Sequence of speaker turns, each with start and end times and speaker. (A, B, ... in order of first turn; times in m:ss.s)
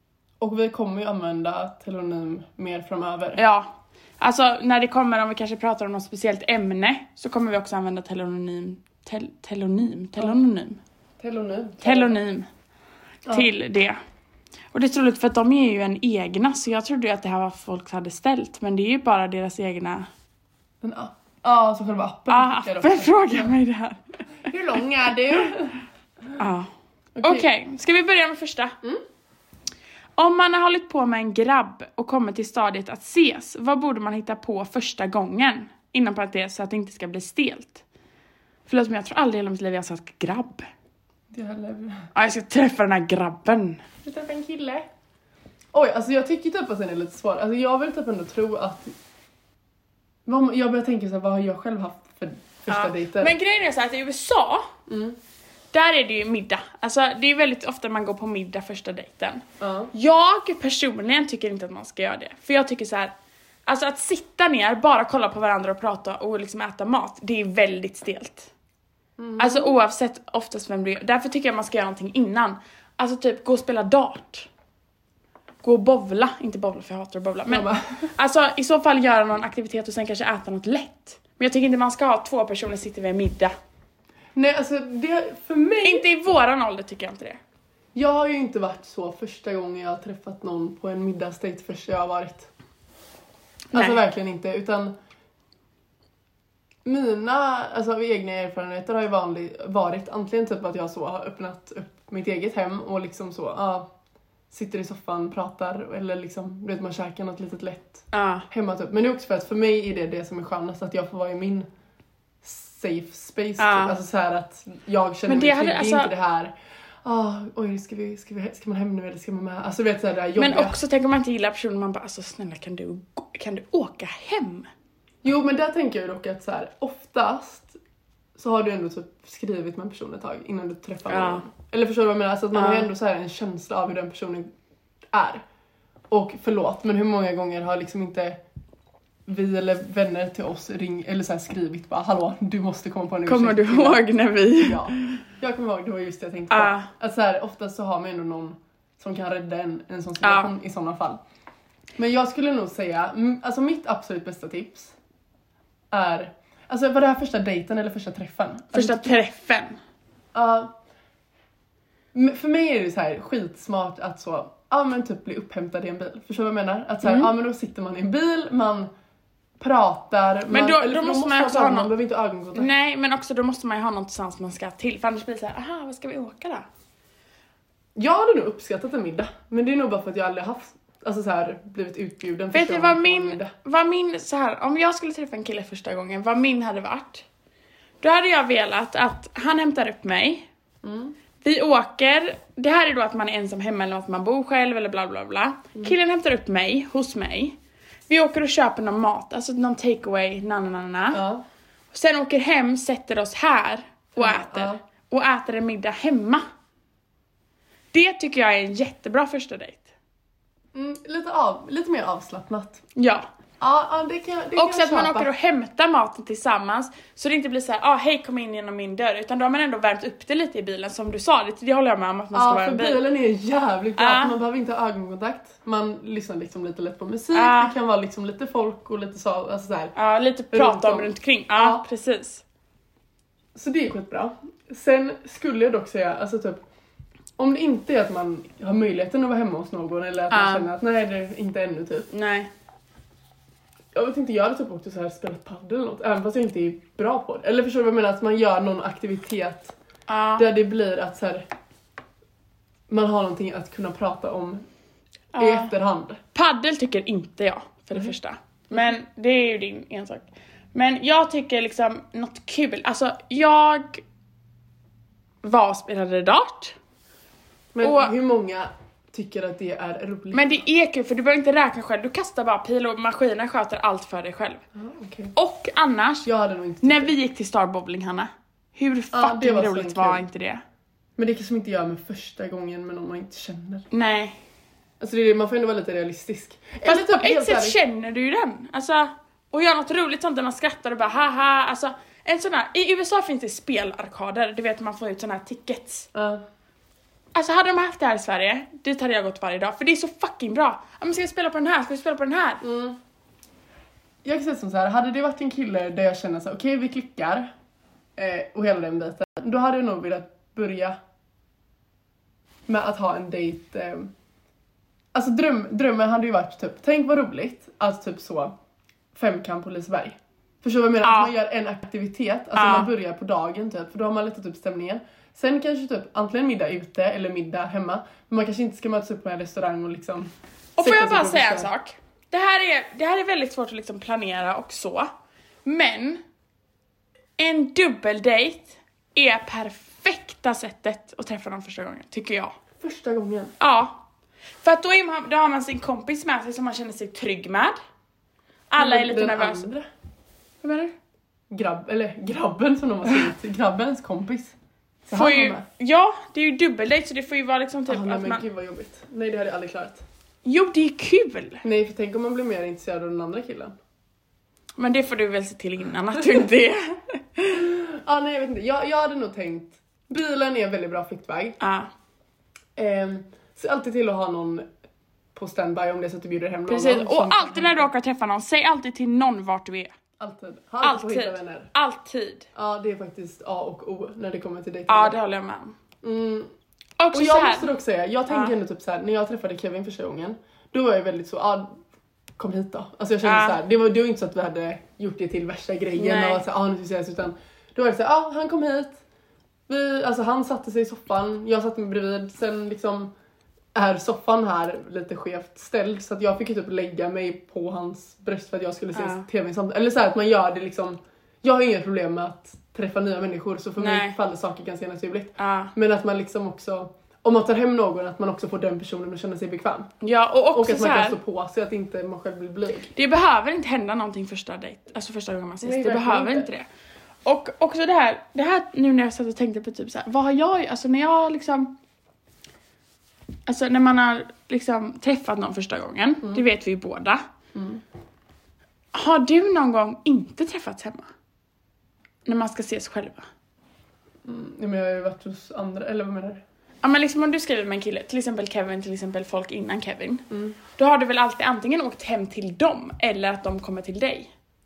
0:00.4-0:03.4 A
0:03.4-0:10.8 B
0:11.2-0:12.2 A
0:11.8-0:12.5 B
0:13.3-0:14.0 B
0:14.7-0:20.1 B
0:20.8-0:23.5 A
0:22.3-0:24.0 B
0:24.4-0:25.7 A
0:26.4-0:26.7 B
0:27.1-0:27.5 A
0:27.2-0:28.8 B
0:30.2-0:37.8 B
0:38.7-0:40.7 B
0:41.3-0:42.1 A
0:42.1-0:43.8 B
0:44.0-0:44.9 A
0:45.7-0:48.9 A
0:50.2-0:53.3 A
0:52.7-0:54.7 B
0:54.9-0:55.2 A
0:55.7-1:03.1 B
0:59.6-0:59.9 A
1:03.7-1:08.5 B
1:09.2-1:09.7 A
1:09.4-1:14.5 B
1:15.6-1:23.5 B
1:17.5-1:18.1 A
1:24.3-1:26.0 A
1:25.8-1:27.4 B
1:27.9-1:32.5 A
1:33.7-1:34.0 B
1:33.7-1:34.9 A
1:36.8-1:43.9 A
1:44.5-1:51.7 A
1:48.1-1:48.4 B
1:52.4-2:00.8 A
1:53.6-1:54.0 B
1:55.3-1:56.1 B
2:00.4-2:04.7 B
2:05.2-2:07.8 A
2:08.4-2:14.5 A
2:11.1-2:11.4 B
2:12.5-2:12.9 B
2:15.1-2:15.4 A
2:16.1-2:18.4 A
2:19.2-2:31.2 A
2:23.2-2:25.2 B
2:26.5-2:26.9 B
2:30.2-2:30.5 B
2:32.0-2:34.9 A
2:35.9-2:39.2 A
2:38.7-2:39.8 B
2:40.3-2:40.7 A
2:42.1-2:48.9 A
2:47.0-2:47.3 B
2:49.6-2:52.7 A
2:50.5-2:51.9 B
2:52.6-2:56.6 B
2:58.0-3:03.5 A
3:02.5-3:07.2 B
3:08.0-3:10.5 B
3:10.8-3:11.1 A
3:11.4-3:21.2 B
3:21.1-3:21.4 A
3:21.9-3:26.4 B
3:24.2-3:24.8 A
3:27.9-3:29.8 B
3:30.7-3:32.8 A
3:33.0-3:33.3 B
3:33.6-3:35.3 A
3:34.6-3:43.0 B
3:42.3-3:49.9 A
3:44.0-3:44.3 B
3:47.3-3:47.7 B
3:49.9-3:52.4 B
3:50.5-3:51.8 A
3:53.5-3:56.6 A
3:57.4-4:02.1 A
4:00.3-4:00.7 B
4:02.1-4:02.5 B
4:03.9-4:09.7 A
4:10.1-4:10.4 B
4:10.4-4:11.5 A
4:12.9-4:14.6 A
4:15.3-4:15.7 B
4:15.4-4:16.2 A
4:16.3-4:24.0 B
4:25.4-4:26.8 B
4:27.7-4:30.6 A
4:27.8-4:28.1 B
4:30.3-4:34.6 B
4:34.7-4:35.3 A
4:35.3-4:36.3 B
4:36.2-4:37.1 A
4:36.8-4:40.6 B
4:39.1-4:40.2 A
4:41.2-4:43.8 A
4:43.9-4:44.4 B
4:45.0-4:47.8 A
4:46.8-4:56.1 B
4:56.1-4:56.4 A
4:57.3-5:02.6 B
5:02.6-5:03.0 A
5:04.2-5:07.5 A
5:08.2-5:11.0 A
5:12.7-5:14.1 A
5:15.1-5:18.6 A
5:19.1-5:31.7 A
5:21.0-5:21.3 B
5:22.5-5:22.9 B
5:30.8-5:35.1 B
5:35.6-5:36.2 B
5:37.4-5:42.6 B
5:42.8-5:43.5 A
5:43.6-5:44.0 B
5:44.6-5:47.8 B
5:48.7-5:49.7 B
5:48.8-5:49.8 A
5:50.6-5:50.9 B
5:51.5-5:54.5 A
5:55.0-5:55.6 A
5:55.1-5:58.4 B
5:57.9-6:00.0 A
6:00.4-6:01.6 B
6:01.6-6:03.8 A
6:04.8-6:07.6 B
6:07.5-6:11.6 A
6:11.6-6:11.9 B
6:12.8-6:14.7 A
6:15.3-6:17.9 A
6:16.7-6:19.9 B
6:20.2-6:21.7 A
6:20.8-6:22.4 B
6:22.5-6:25.2 A
6:24.9-6:25.8 B
6:26.0-6:26.5 A
6:27.0-6:27.7 B
6:27.1-6:31.8 A
6:28.3-6:28.5 B
6:32.4-6:39.0 A
6:33.2-6:33.6 B
6:35.9-6:36.4 B
6:39.7-6:43.1 A
6:43.7-6:59.9 A
6:48.9-6:49.3 B
6:53.8-6:54.2 B
6:55.4-6:55.7 B
7:00.0-7:01.2 B
7:00.5-7:02.9 A
7:03.0-7:06.6 B
7:05.6-7:06.5 A
7:07.2-7:11.7 B
7:13.4-7:17.2 B
7:17.5-7:17.8 A
7:18.9-7:21.1 B
7:22.2-7:23.3 B
7:24.2-7:26.4 A
7:26.8-7:34.3 B
7:30.3-7:30.6 A